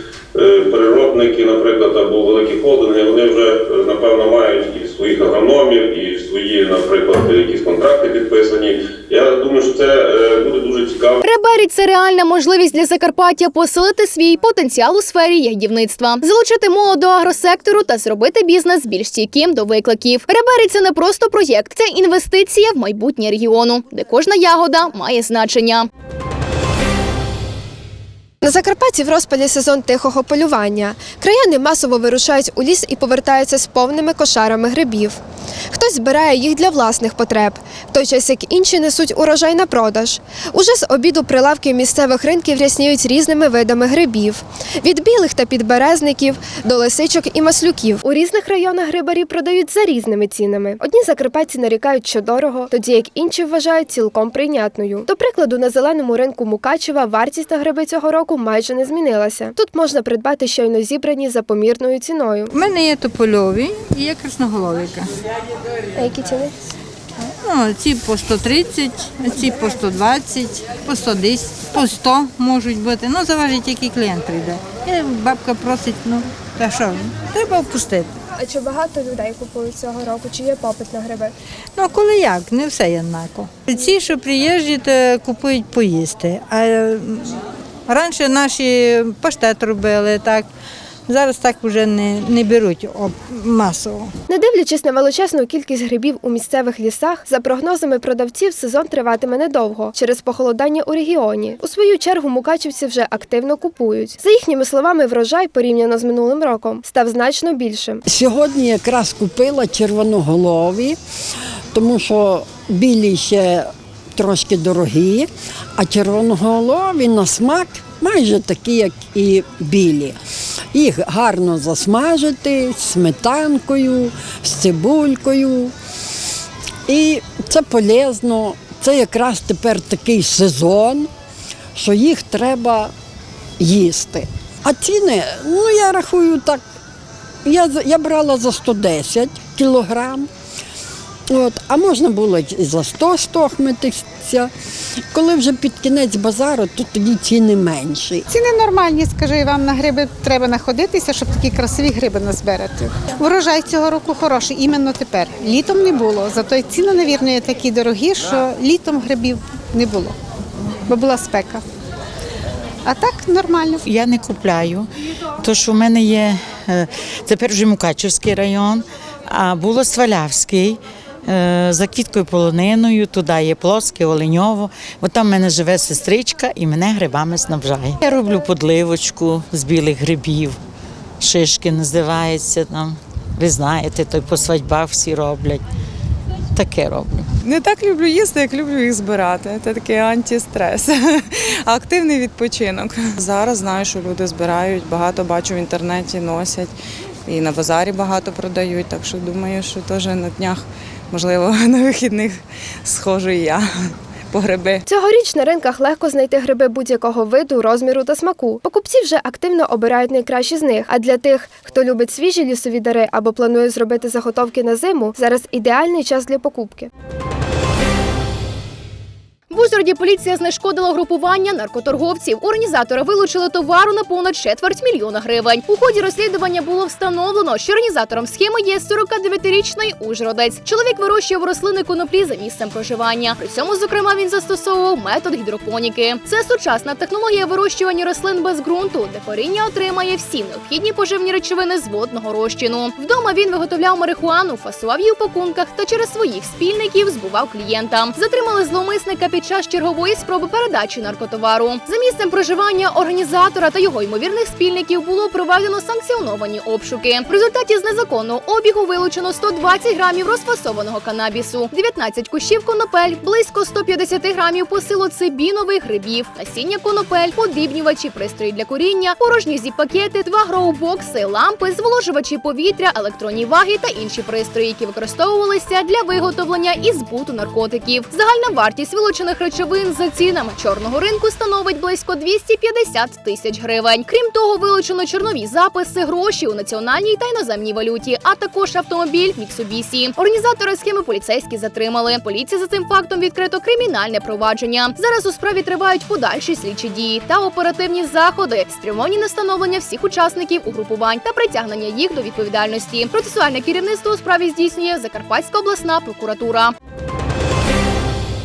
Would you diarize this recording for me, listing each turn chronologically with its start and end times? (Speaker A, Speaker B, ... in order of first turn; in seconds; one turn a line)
Speaker A: 0.4-11.2
Speaker B: 11.2-25.9
Speaker C: 28.4-35.2
Speaker C: 35.7-62.5
Speaker D: 62.6-64.9
Speaker E: 62.7-65.0
Speaker C: 65.9-66.5
Speaker E: 67.4-78.1
Speaker D: 67.5-69.0
Speaker D: 69.5-74.4
Speaker D: 75.0-75.9
Speaker C: 78.3-81.3
Speaker E: 81.8-86.7
Speaker D: 82.0-82.8
Speaker D: 84.1-86.5
Speaker E: 87.9-90.4
Speaker D: 87.9-90.4
Speaker E: 91.1-94.0
Speaker D: 91.1-93.8
Speaker C: 94.3-108.0
Speaker F: 108.1-111.0
Speaker F: 111.7-120.2
Speaker F: 120.7-125.7
Speaker F: 126.9-131.1
Speaker F: 131.8-132.9
Speaker F: 133.6-136.6
Speaker F: 137.4-140.3
Speaker F: 141.3-144.5
Speaker F: 145.1-148.2
Speaker D: 148.3-160.1
Speaker D: 160.9-161.6
Speaker D: 162.8-163.8
Speaker G: 163.8-164.9
Speaker G: 165.4-180.6
Speaker G: 181.2-185.6
Speaker G: 186.5-187.2
Speaker H: 187.4-196.7
Speaker H: 197.2-203.7
Speaker H: 204.3-204.8
Speaker C: 204.9-216.9
Speaker B: 219.5-306.7